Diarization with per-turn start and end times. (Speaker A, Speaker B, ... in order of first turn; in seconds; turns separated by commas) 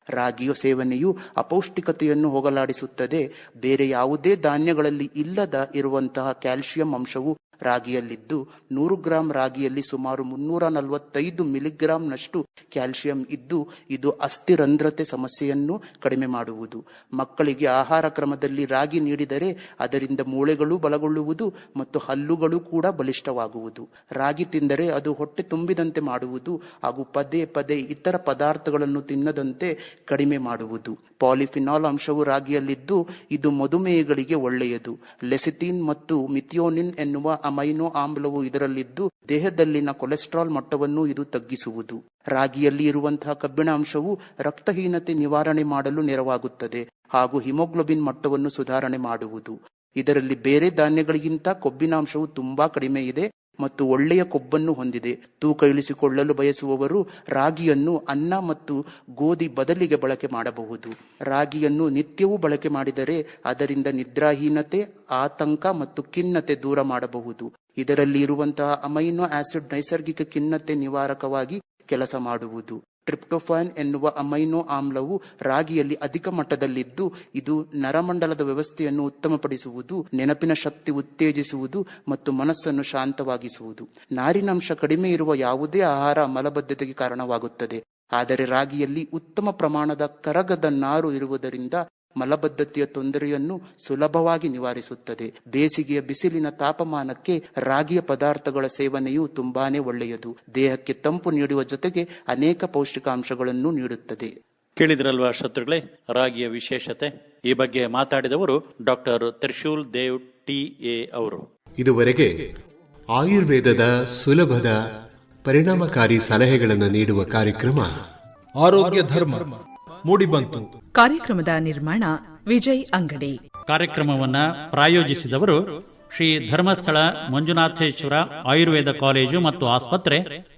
Speaker A: 0.2-104.3, Speaker B: 104.8-111.5, Speaker C: 111.8-112.3, Speaker C: 113.2-114.8, Speaker C: 115.5-118.0, Speaker D: 118.6-120.7, Speaker E: 121.0-123.4, Speaker B: 123.7-125.6, Speaker B: 126.1-130.3